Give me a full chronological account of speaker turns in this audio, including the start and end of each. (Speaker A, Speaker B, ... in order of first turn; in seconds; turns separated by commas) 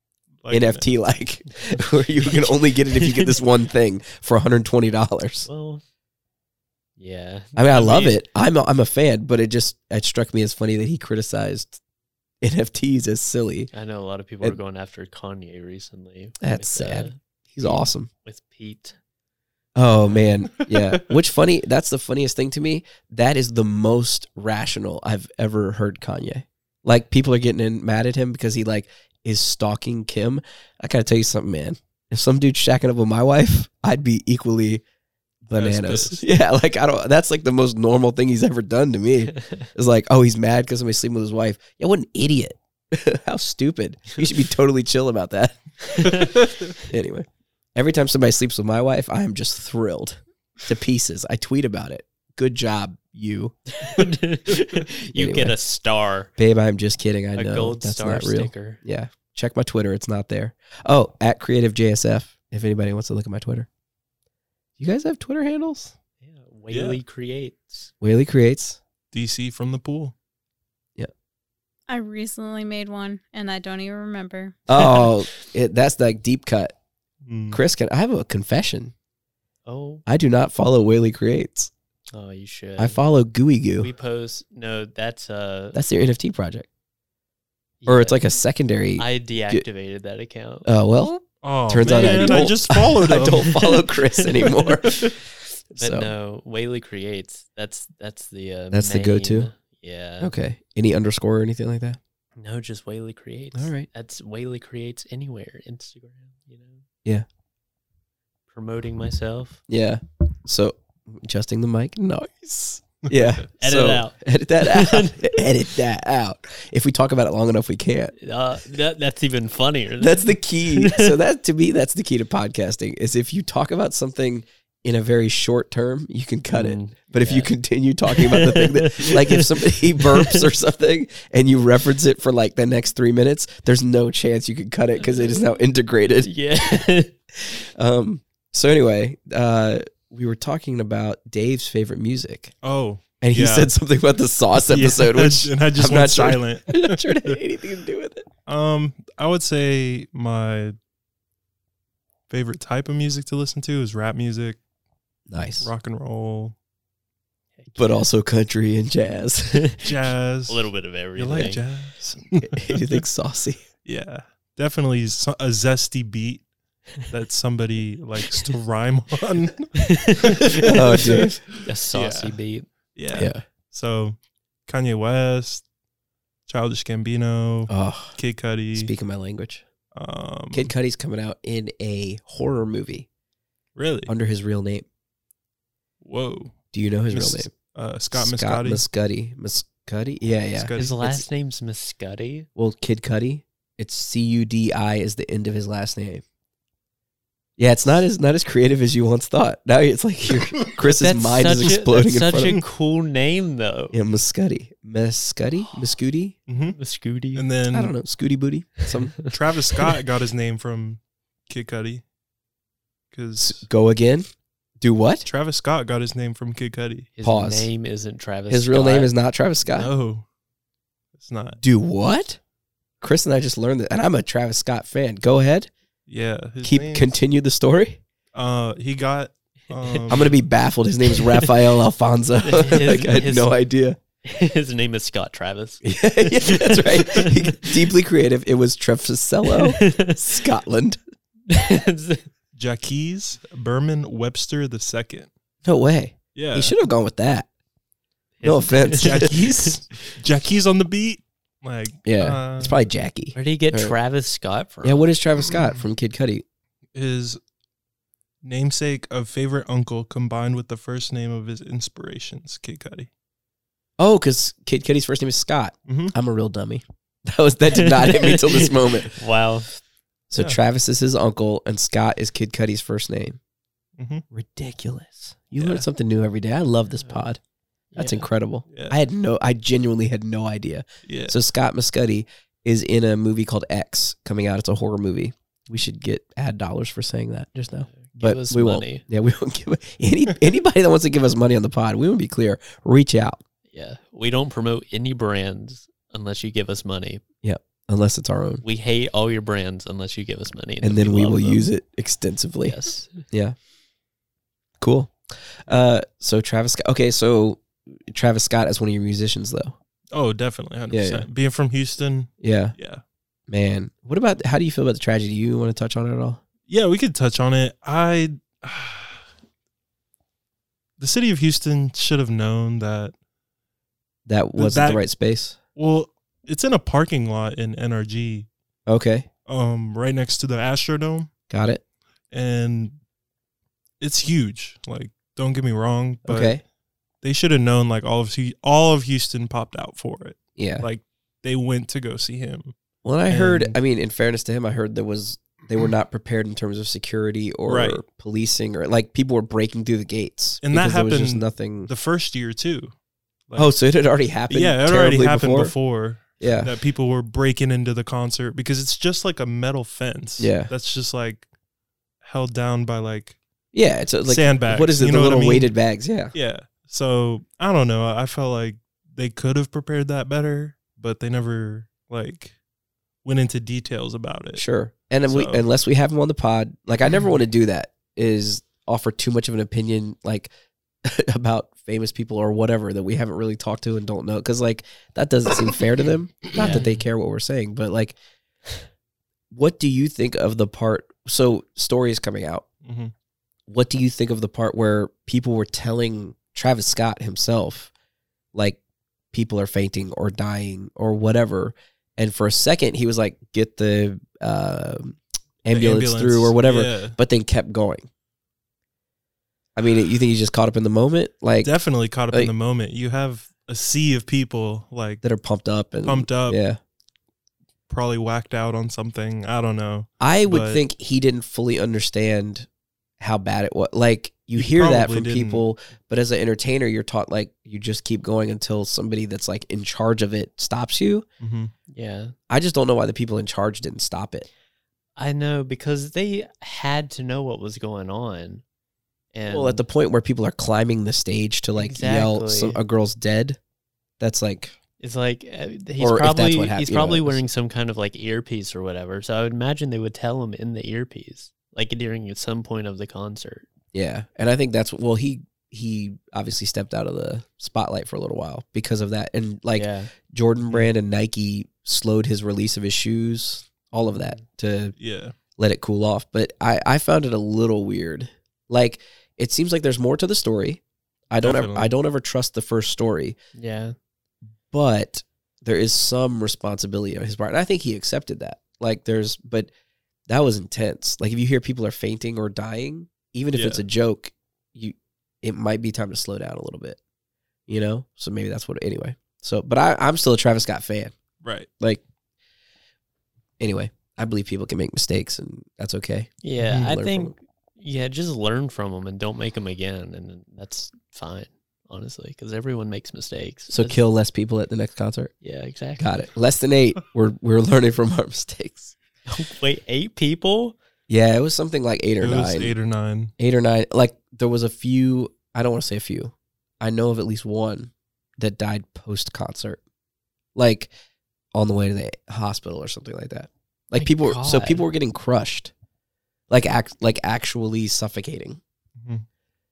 Speaker A: 0.4-0.9, Speaker B: 0.5-5.5, Speaker C: 2.2-3.4, Speaker C: 5.5-5.8, Speaker C: 7.0-7.6, Speaker B: 7.5-11.8, Speaker A: 7.7-8.2, Speaker B: 12.4-13.7, Speaker C: 13.7-19.0, Speaker B: 16.4-18.1, Speaker B: 19.7-34.8, Speaker C: 20.1-20.4, Speaker B: 35.4-53.5, Speaker A: 35.5-36.2, Speaker C: 39.3-39.7, Speaker C: 45.8-46.4, Speaker C: 53.7-56.3, Speaker B: 55.1-55.6, Speaker B: 56.4-63.7, Speaker C: 57.3-58.8, Speaker B: 64.8-65.9, Speaker C: 66.2-67.9, Speaker A: 66.7-67.0, Speaker B: 68.0-68.8, Speaker A: 69.1-70.1, Speaker D: 71.9-74.9, Speaker B: 74.7-76.7, Speaker A: 77.2-77.6, Speaker B: 77.5-78.9, Speaker C: 79.7-80.0, Speaker B: 80.0-81.7, Speaker C: 82.1-83.0, Speaker B: 82.8-83.9, Speaker C: 83.8-85.8, Speaker B: 85.7-86.7, Speaker C: 87.8-88.2, Speaker B: 87.9-89.6, Speaker C: 89.0-90.7, Speaker B: 90.6-95.2, Speaker A: 91.4-93.6, Speaker C: 91.8-92.7, Speaker C: 93.3-100.3, Speaker B: 95.7-96.1, Speaker B: 98.7-99.5, Speaker B: 100.2-102.0, Speaker C: 102.4-106.8, Speaker B: 103.5-103.9, Speaker C: 108.5-109.6, Speaker B: 109.7-118.1, Speaker A: 113.0-113.4, Speaker C: 113.6-115.5, Speaker C: 118.2-121.2, Speaker B: 120.0-136.8, Speaker C: 126.5-127.5, Speaker C: 128.1-130.4, Speaker C: 135.0-135.4, Speaker C: 136.2-137.1, Speaker B: 137.5-142.5, Speaker A: 142.6-143.7, Speaker B: 143.2-148.3, Speaker A: 144.7-147.4, Speaker A: 148.4-150.8, Speaker A: 152.3-154.6, Speaker B: 155.3-155.7, Speaker A: 155.6-156.5, Speaker C: 157.6-158.0, Speaker B: 157.8-159.7, Speaker C: 159.5-159.9, Speaker A: 159.8-163.0, Speaker C: 160.5-161.6, Speaker B: 162.4-163.6, Speaker A: 163.8-166.4, Speaker A: 167.0-172.3, Speaker C: 169.8-172.7, Speaker B: 170.6-171.4, Speaker A: 172.9-175.6, Speaker B: 173.1-173.4, Speaker A: 176.5-178.9, Speaker B: 177.7-178.2, Speaker B: 178.7-179.6, Speaker A: 179.9-180.7, Speaker B: 180.5-183.1, Speaker A: 183.8-184.1, Speaker B: 184.1-184.8, Speaker A: 186.0-186.5, Speaker B: 186.7-187.5, Speaker A: 187.1-188.8, Speaker B: 188.1-190.7, Speaker A: 190.5-191.2, Speaker C: 190.8-192.5, Speaker B: 192.6-196.2, Speaker B: 197.6-202.6, Speaker C: 200.8-203.9, Speaker B: 203.9-206.3, Speaker A: 206.5-206.8, Speaker C: 206.7-207.5, Speaker A: 207.3-207.9, Speaker B: 207.7-209.1, Speaker C: 208.8-210.0, Speaker A: 209.2-212.0, Speaker A: 213.1-213.7, Speaker B: 213.4-214.3, Speaker B: 214.8-215.3, Speaker A: 215.2-217.1, Speaker C: 217.2-219.1, Speaker B: 217.2-217.7, Speaker B: 218.5-219.9, Speaker A: 219.7-220.2, Speaker A: 221.2-221.6, Speaker B: 221.6-222.4, Speaker B: 223.0-225.7, Speaker A: 226.1-227.1, Speaker B: 226.6-228.0, Speaker A: 228.3-230.3, Speaker C: 229.7-230.3, Speaker B: 230.1-234.0, Speaker C: 231.0-231.7, Speaker C: 232.4-233.5, Speaker C: 234.2-237.9, Speaker B: 235.8-241.0, Speaker C: 239.4-240.4, Speaker C: 241.5-242.3, Speaker A: 242.5-245.3, Speaker B: 245.6-247.5, Speaker A: 246.3-246.7, Speaker C: 248.4-250.0, Speaker B: 248.4-249.7, Speaker A: 248.9-252.8, Speaker B: 252.0-253.9, Speaker C: 253.3-255.0, Speaker B: 254.8-256.4, Speaker A: 256.9-257.4, Speaker A: 258.4-263.1, Speaker B: 264.0-269.2, Speaker A: 265.9-266.1, Speaker C: 267.7-269.7, Speaker B: 270.3-273.4, Speaker A: 274.0-274.2, Speaker B: 274.3-277.4, Speaker A: 275.6-275.8, Speaker C: 277.9-278.3, Speaker B: 277.9-293.4, Speaker A: 281.1-281.4, Speaker C: 287.9-289.0, Speaker C: 293.7-297.2, Speaker B: 297.4-298.6, Speaker C: 298.6-301.6, Speaker B: 300.8-302.8, Speaker C: 302.6-303.2, Speaker B: 303.3-303.6, Speaker B: 304.8-309.7, Speaker A: 310.1-313.0, Speaker B: 310.9-311.2, Speaker B: 312.4-312.8, Speaker B: 313.5-316.4, Speaker A: 316.7-319.2, Speaker A: 321.0-323.1, Speaker B: 324.3-325.6, Speaker A: 324.6-325.0, Speaker A: 325.8-328.5, Speaker B: 328.9-329.3, Speaker A: 329.4-331.3, Speaker B: 331.5-331.8, Speaker A: 332.3-333.0, Speaker A: 334.0-336.6, Speaker B: 336.2-336.6, Speaker A: 337.2-342.7, Speaker B: 340.6-340.9, Speaker B: 343.0-351.9, Speaker A: 343.3-343.8, Speaker A: 347.7-348.0, Speaker A: 350.6-352.9, Speaker B: 353.5-355.7, Speaker A: 354.5-361.5, Speaker B: 356.4-356.7, Speaker B: 360.4-360.7, Speaker A: 362.2-363.4, Speaker B: 363.7-366.3, Speaker A: 364.2-365.7, Speaker A: 366.3-372.5, Speaker A: 373.2-374.6, Speaker B: 374.6-380.5, Speaker A: 375.3-375.6, Speaker B: 381.0-388.1, Speaker C: 386.5-386.8, Speaker A: 386.6-387.0, Speaker B: 389.5-392.6, Speaker A: 392.8-393.1, Speaker B: 393.7-397.9, Speaker B: 398.5-398.8, Speaker B: 399.3-408.1, Speaker A: 405.7-407.2, Speaker B: 409.8-411.7, Speaker A: 411.6-415.2, Speaker B: 415.2-416.8, Speaker A: 416.0-416.6, Speaker A: 417.9-420.8, Speaker B: 420.2-422.7, Speaker B: 423.2-431.2, Speaker A: 424.6-425.6, Speaker A: 431.4-431.7, Speaker C: 431.9-432.3, Speaker B: 432.5-434.5, Speaker C: 435.2-438.6, Speaker C: 439.3-439.8, Speaker B: 439.5-443.6, Speaker C: 441.8-442.8, Speaker B: 444.2-444.8, Speaker C: 445.0-453.7, Speaker B: 446.0-447.4, Speaker B: 453.9-464.9, Speaker C: 459.8-460.1, Speaker A: 465.0-465.3, Speaker B: 465.6-473.4, Speaker A: 471.4-471.9, Speaker C: 473.5-473.9, Speaker B: 474.7-479.7, Speaker B: 480.3-487.0, Speaker A: 483.5-483.8, Speaker B: 487.7-491.1, Speaker A: 491.4-491.7, Speaker B: 493.6-497.3, Speaker C: 496.4-504.0, Speaker B: 503.7-505.3, Speaker C: 505.4-506.1, Speaker B: 506.0-508.9, Speaker C: 509.3-510.8, Speaker B: 511.1-512.7, Speaker A: 512.2-513.3, Speaker B: 513.4-519.8, Speaker B: 520.5-520.9, Speaker B: 521.5-525.7, Speaker C: 524.0-524.8, Speaker B: 526.5-528.6